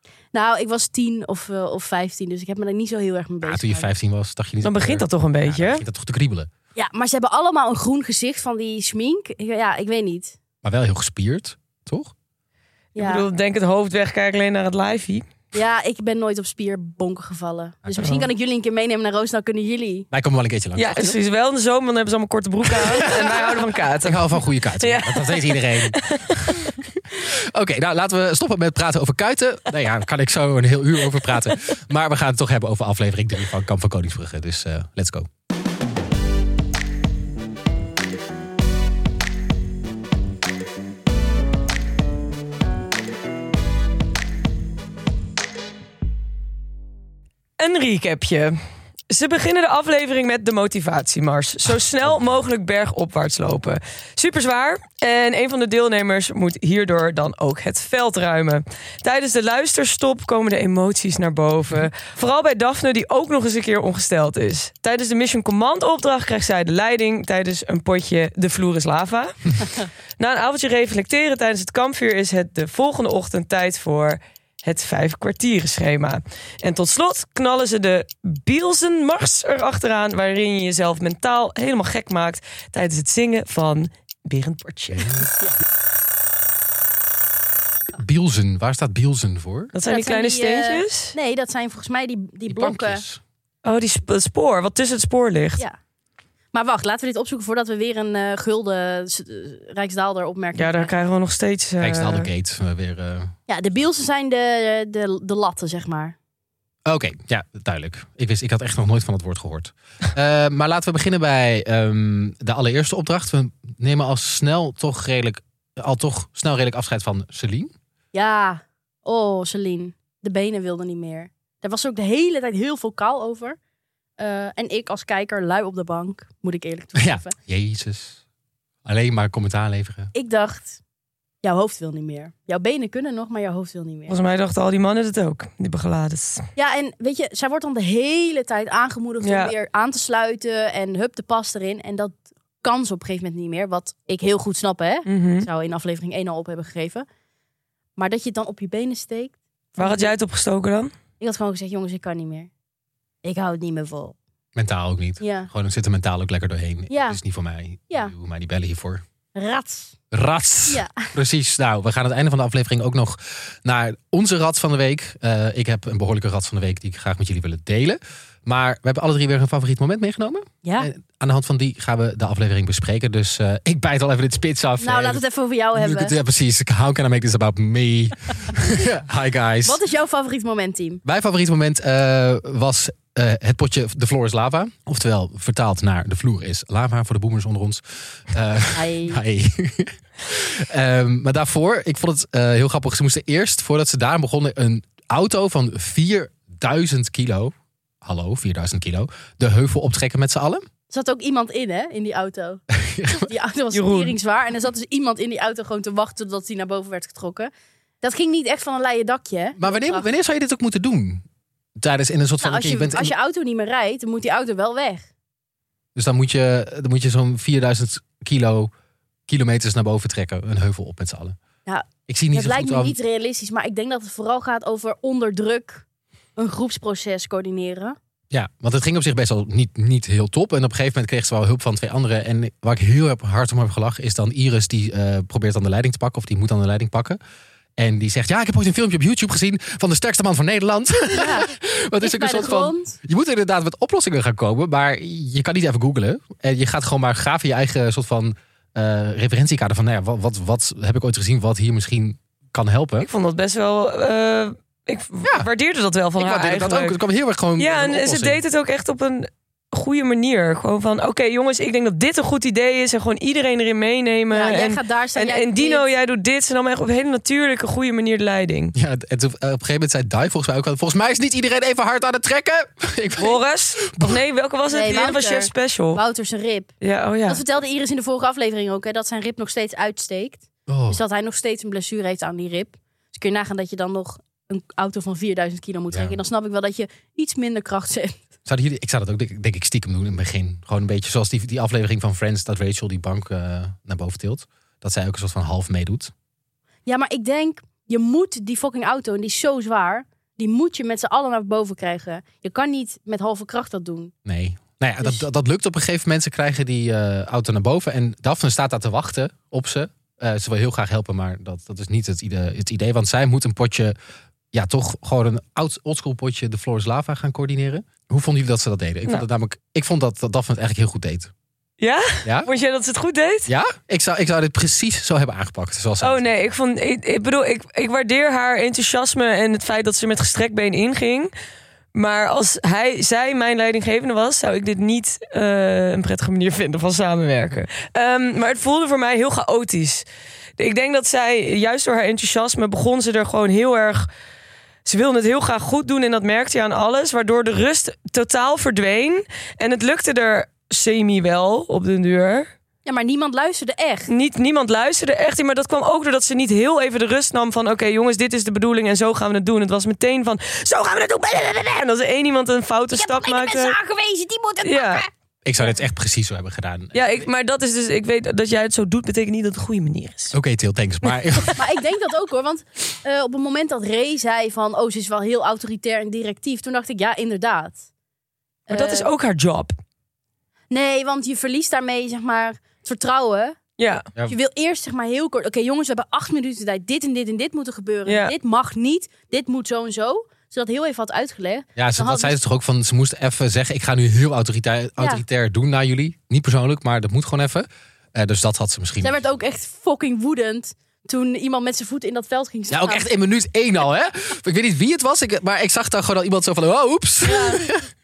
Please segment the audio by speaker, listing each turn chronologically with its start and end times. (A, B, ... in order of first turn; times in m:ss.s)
0:00.3-0:03.9 A
0:03.4-0:06.5 B
0:04.6-0:05.8 C
0:06.8-0:10.4 A
0:10.6-0:12.1 B
0:12.9-0:13.2 A
0:13.0-0:15.3 C
0:15.5-0:20.1 A
0:18.0-0:18.3 C
0:20.1-0:21.2 B
0:20.8-0:26.7 C
0:22.7-0:35.3 B
0:47.6-0:48.5 C
0:49.1-1:25.3 C
0:52.0-0:52.4 B
1:24.9-1:25.3 B
1:27.9-1:29.7 B
1:29.7-1:31.1 C
1:29.8-1:33.0 A
1:32.5-1:33.2 B
1:33.6-1:35.6 C
1:36.5-1:40.9 A
1:40.5-1:42.3 C
1:41.8-1:43.3 B
1:43.5-1:46.2 A
1:46.8-1:57.7 B
1:58.1-2:03.6 A
2:04.2-2:07.3 A
2:07.0-2:08.2 B
2:08.8-2:10.1 B
2:10.1-2:10.8 A
2:11.4-2:14.2 A
2:14.1-2:16.4 C
2:16.6-2:27.0 A
2:19.2-2:19.5 C
2:25.1-2:25.5 C
2:28.0-2:30.1 A
2:29.8-2:30.9 C
2:31.2-2:32.5 A
2:33.2-2:34.2 A
2:34.5-2:39.0 B
2:35.2-2:35.5 A
2:36.9-2:37.2 A
2:39.4-2:40.0 A
2:40.1-2:55.2 B
2:40.7-2:41.1 A
2:50.6-2:50.9 A
2:54.8-2:56.2 A
2:55.7-2:59.8 B
2:59.6-3:01.0 A
3:01.0-3:20.6 B
3:08.7-3:09.2 A
3:20.9-3:22.6 A
3:22.7-3:23.3 B
3:23.2-3:27.5 A
3:23.7-3:24.2 C
3:28.0-3:30.1 A
3:29.6-3:31.2 B
3:31.8-3:33.1 B
3:32.4-3:35.0 A
3:35.9-3:38.7 B
3:39.3-3:41.4 B
3:41.6-3:45.8 A
3:42.1-3:43.0 B
3:46.4-3:48.0 A
3:48.3-3:57.2 B
3:57.8-4:13.1 B
4:01.1-4:01.5 A
4:02.0-4:03.0 A
4:13.0-4:17.0 C
4:15.2-4:15.5 B
4:16.2-4:18.4 B
4:17.6-4:28.7 C
4:24.3-4:25.8 A
4:28.7-4:34.2 B
4:33.2-4:36.0 C
4:34.7-4:36.7 A
4:36.8-4:37.4 C
4:37.3-4:48.2 A
4:40.7-4:41.0 B
4:48.4-4:56.1 B
4:56.8-5:04.1 A
5:04.2-5:13.9 B
5:14.5-5:21.3 B
5:21.8-5:23.5 C
5:22.2-5:22.5 B
5:23.5-5:26.3 B
5:26.0-5:31.3 C
5:31.9-5:40.0 C
5:40.6-5:44.1 C
5:44.8-5:52.5 C
5:52.8-5:54.1 A
5:54.1-6:03.8 C
6:02.9-6:05.1 A
6:04.6-6:05.0 C
6:05.4-6:07.3 B
6:06.9-6:10.3 C
6:10.3-6:11.6 B
6:11.0-6:11.6 C
6:11.5-6:17.8 A
6:18.7-6:19.1 A
6:18.7-6:19.7 C
6:20.7-6:23.6 A
6:23.8-6:24.0 C
6:24.3-6:32.4 A
6:28.0-6:28.3 C
6:31.8-6:39.2 B
6:35.0-6:35.2 A
6:39.0-6:43.1 A
6:42.7-6:47.8 B
6:47.2-6:47.7 A